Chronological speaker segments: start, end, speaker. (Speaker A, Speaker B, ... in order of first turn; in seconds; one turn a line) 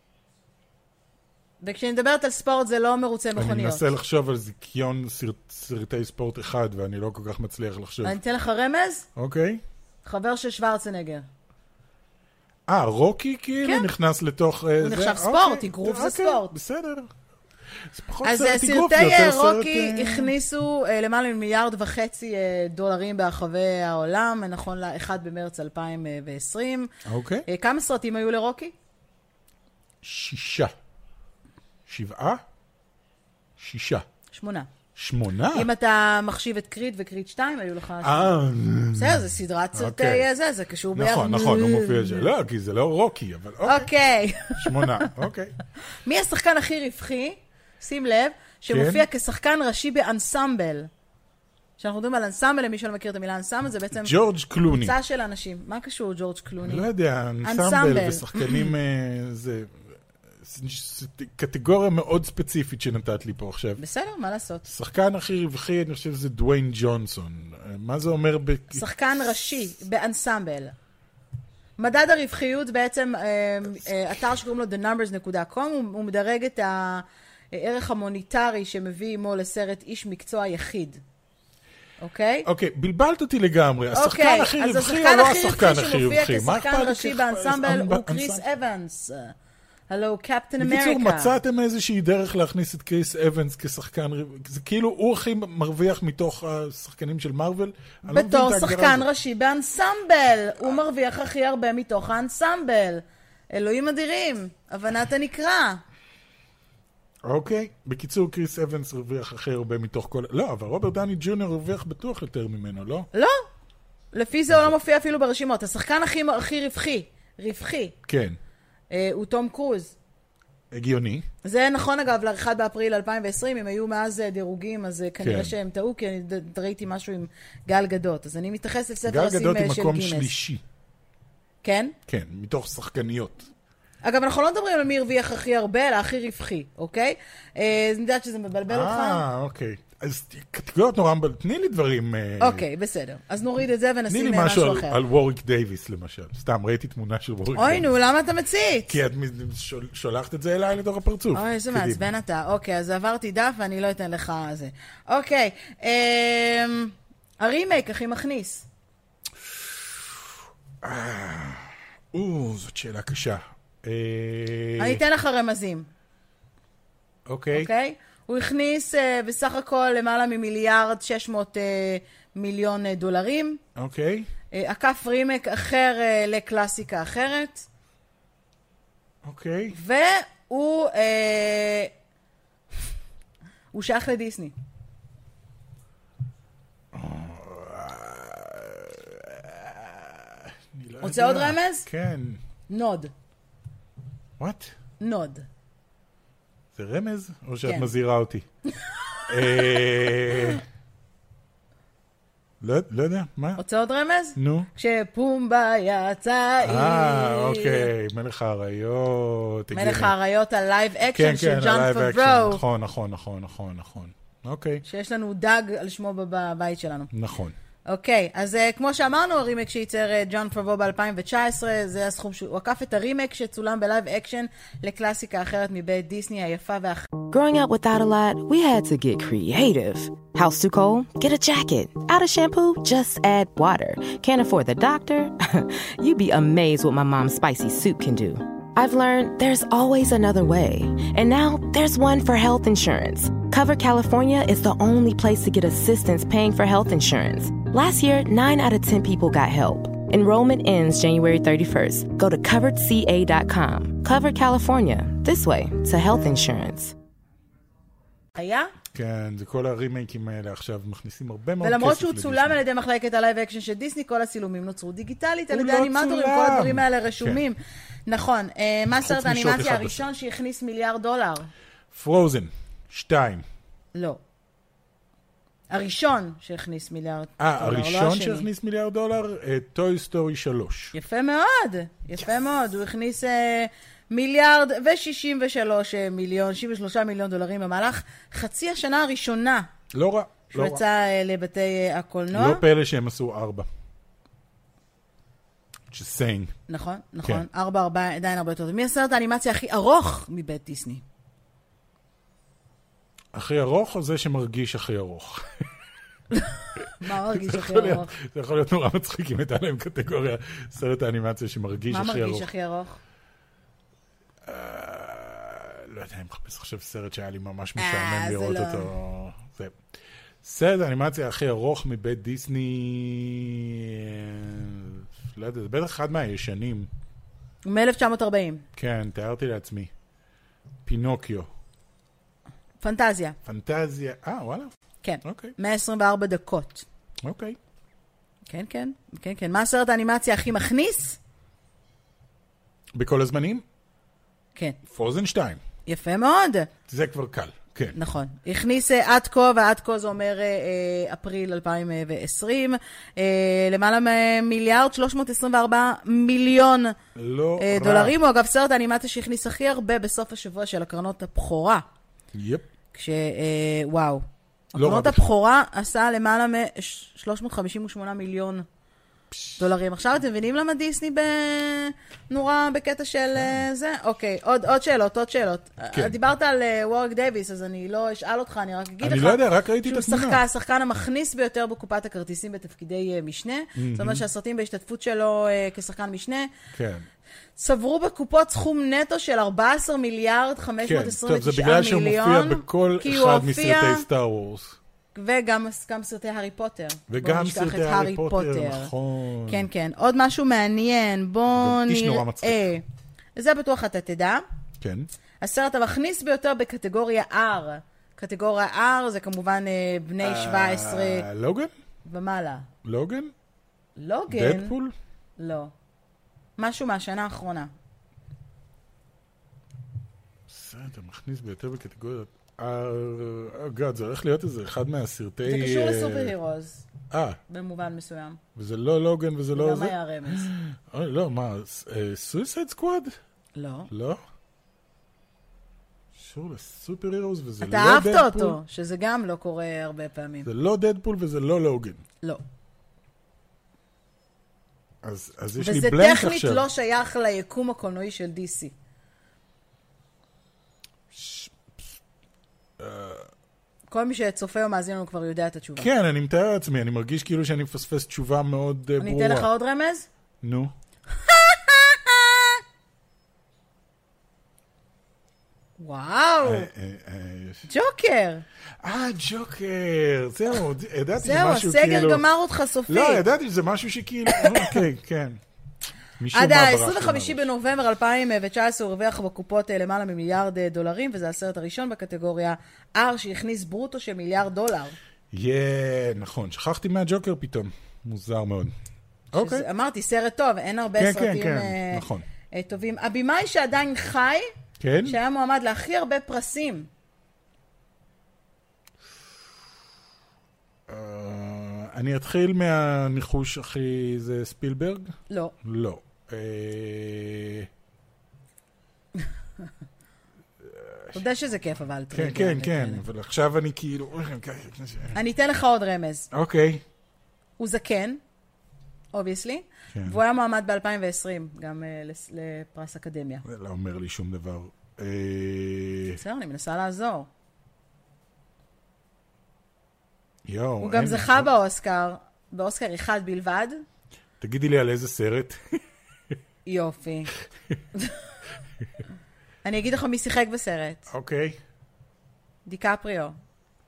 Speaker A: 1.6-3.9
Speaker B: 3.4-8.2
Speaker A: 8.0-9.1
Speaker B: 9.2-9.6
Speaker A: 10.0-11.2
Speaker B: 12.7-17.1
Speaker A: 13.6-13.9
Speaker A: 14.8-16.5
Speaker B: 17.9-20.3
Speaker A: 18.2-26.9
Speaker B: 27.0-27.4
Speaker A: 27.5-28.7
Speaker B: 30.0-30.7
Speaker B: 31.9-32.4
Speaker B: 33.6-34.0
Speaker A: 34.3-34.7
Speaker B: 34.9-35.7
Speaker A: 35.5-38.3
Speaker B: 38.0-40.3
Speaker A: 38.9-42.3
Speaker B: 40.9-43.9
Speaker A: 43.6-45.1
Speaker B: 44.5-45.5
Speaker A: 46.0-50.9
Speaker B: 48.7-49.0
Speaker A: 51.8-54.1
Speaker B: 54.0-54.9
Speaker A: 54.8-56.9
Speaker B: 56.6-59.8
Speaker A: 57.4-58.7
Speaker B: 60.4-63.8
Speaker A: 63.8-64.7
Speaker B: 64.7-68.8
Speaker A: 68.7-70.7
Speaker A: 71.8-81.0
Speaker A: 82.0-82.5
Speaker B: 82.4-88.4
Speaker A: 83.9-89.3
Speaker A: 89.9-91.3
Speaker B: 90.6-99.1
Speaker A: 98.1-105.8
Speaker B: 107.2-113.1
Speaker A: 113.1-113.4
Speaker A: 114.1-117.9
Speaker B: 118.0-118.4
Speaker A: 118.9-119.9
Speaker B: 120.7-121.2
Speaker A: 121.4-130.3
Speaker B: 125.2-125.5
Speaker B: 129.1-130.6
Speaker A: 131.6-131.9
Speaker B: 132.1-133.5
Speaker A: 134.0-139.2
Speaker B: 138.7-142.6
Speaker A: 142.4-145.0
Speaker B: 144.1-147.9
Speaker A: 147.6-149.0
Speaker B: 148.9-152.0
Speaker A: 151.3-158.7
Speaker B: 159.5-159.9
Speaker B: 160.8-165.0
Speaker A: 164.8-165.9
Speaker B: 167.3-167.7
Speaker A: 167.5-173.6
Speaker B: 173.7-174.3
Speaker A: 174.5-177.7
Speaker B: 179.2-179.8
Speaker A: 179.7-181.9
Speaker A: 183.7-184.5
Speaker B: 186.9-192.4
Speaker A: 191.0-191.9
Speaker A: 192.7-193.1
Speaker B: 194.4-194.7
Speaker A: 195.0-195.4
Speaker B: 196.7-198.4
Speaker A: 197.6-197.9
Speaker A: 199.1-200.5
Speaker B: 199.3-200.6
Speaker B: 202.6-203.6
Speaker A: 203.6-207.9
Speaker B: 204.3-204.7
Speaker B: 206.6-210.1
Speaker A: 209.7-212.6
Speaker B: 211.1-214.8
Speaker A: 214.8-217.1
Speaker B: 217.1-217.5
Speaker A: 217.9-227.1
Speaker C: 227.3-256.9
Speaker A: 258.4-258.7
Speaker B: 258.9-262.6
Speaker A: 261.6-271.5
Speaker B: 265.5-267.4
Speaker B: 269.0-270.1
Speaker B: 271.9-273.4
Speaker A: 273.9-274.2
Speaker A: 275.7-278.4
Speaker B: 277.4-280.9
Speaker A: 280.9-289.7
Speaker B: 289.9-290.8
Speaker A: 290.5-292.6
Speaker B: 292.3-293.7
Speaker B: 295.9-296.5
Speaker A: 296.7-301.0
Speaker B: 303.3-305.5
Speaker A: 306.3-308.1
Speaker B: 307.0-312.5
Speaker A: 311.9-313.0
Speaker B: 314.4-319.8
Speaker A: 317.8-318.9
Speaker B: 320.4-326.9
Speaker A: 327.6-328.6
Speaker B: 328.8-329.9
Speaker B: 330.8-331.5
Speaker A: 332.8-333.4
Speaker B: 333.4-334.7
Speaker A: 335.0-336.8
Speaker B: 335.2-335.5
Speaker B: 337.2-337.6
Speaker A: 338.5-341.2
Speaker B: 342.9-343.6
Speaker B: 344.9-345.6
Speaker A: 345.9-346.7
Speaker B: 346.9-348.0
Speaker A: 347.9-356.9
Speaker B: 357.1-358.1
Speaker A: 357.6-361.8
Speaker B: 362.3-362.6
Speaker A: 362.9-368.6
Speaker B: 364.7-365.3
Speaker B: 369.3-369.6
Speaker A: 369.6-386.5
Speaker B: 373.3-373.6
Speaker B: 379.0-380.4
Speaker B: 383.8-384.2
Speaker B: 386.7-387.1
Speaker A: 387.6-394.1
Speaker B: 390.8-394.8
Speaker A: 395.1-398.9
Speaker B: 397.1-399.7
Speaker A: 399.5-402.8
Speaker B: 401.5-402.7
Speaker A: 403.4-404.4
Speaker B: 404.8-405.1
Speaker A: 405.4-411.3
Speaker B: 410.2-411.7
Speaker A: 412.0-412.7
Speaker B: 412.8-413.3
Speaker A: 414.0-414.7
Speaker B: 414.3-414.9
Speaker A: 415.4-415.7
Speaker A: 416.6-417.7
Speaker B: 420.5-426.3
Speaker A: 425.4-426.9
Speaker B: 427.1-427.4
Speaker A: 427.5-428.4
Speaker B: 428.5-433.1
Speaker A: 429.5-430.5
Speaker A: 433.6-433.9
Speaker B: 433.9-434.2
Speaker B: 436.1-438.6
Speaker A: 437.6-440.5
Speaker B: 440.4-442.0
Speaker B: 445.0-446.6
Speaker A: 445.6-448.7
Speaker B: 451.1-451.9
Speaker B: 452.8-453.3
Speaker A: 453.9-455.9
Speaker B: 455.8-459.5
Speaker A: 459.0-460.1
Speaker B: 460.4-460.7
Speaker A: 461.1-462.6
Speaker A: 465.8-466.7
Speaker B: 466.4-467.7
Speaker A: 467.7-468.4
Speaker B: 468.8-472.2
Speaker A: 471.2-473.2
Speaker B: 472.9-475.4
Speaker A: 474.3-474.8
Speaker B: 476.2-477.5
Speaker A: 476.3-484.9
Speaker B: 485.3-488.7
Speaker B: 489.3-489.6
Speaker A: 489.3-494.5
Speaker B: 491.0-492.2
Speaker B: 494.8-495.2
Speaker A: 495.1-496.9
Speaker B: 500.9-507.7
Speaker B: 510.6-511.2
Speaker A: 511.1-513.0
Speaker B: 512.1-515.2
Speaker A: 515.1-516.3
Speaker B: 516.3-516.8
Speaker A: 517.6-518.2
Speaker A: 519.1-523.4
Speaker B: 519.9-520.2
Speaker B: 523.4-526.2
Speaker A: 526.1-527.3
Speaker B: 530.4-531.5
Speaker A: 530.8-533.8
Speaker B: 534.4-535.8
Speaker A: 536.6-537.3
Speaker A: 539.6-541.1
Speaker B: 541.1-541.6
Speaker A: 542.6-543.4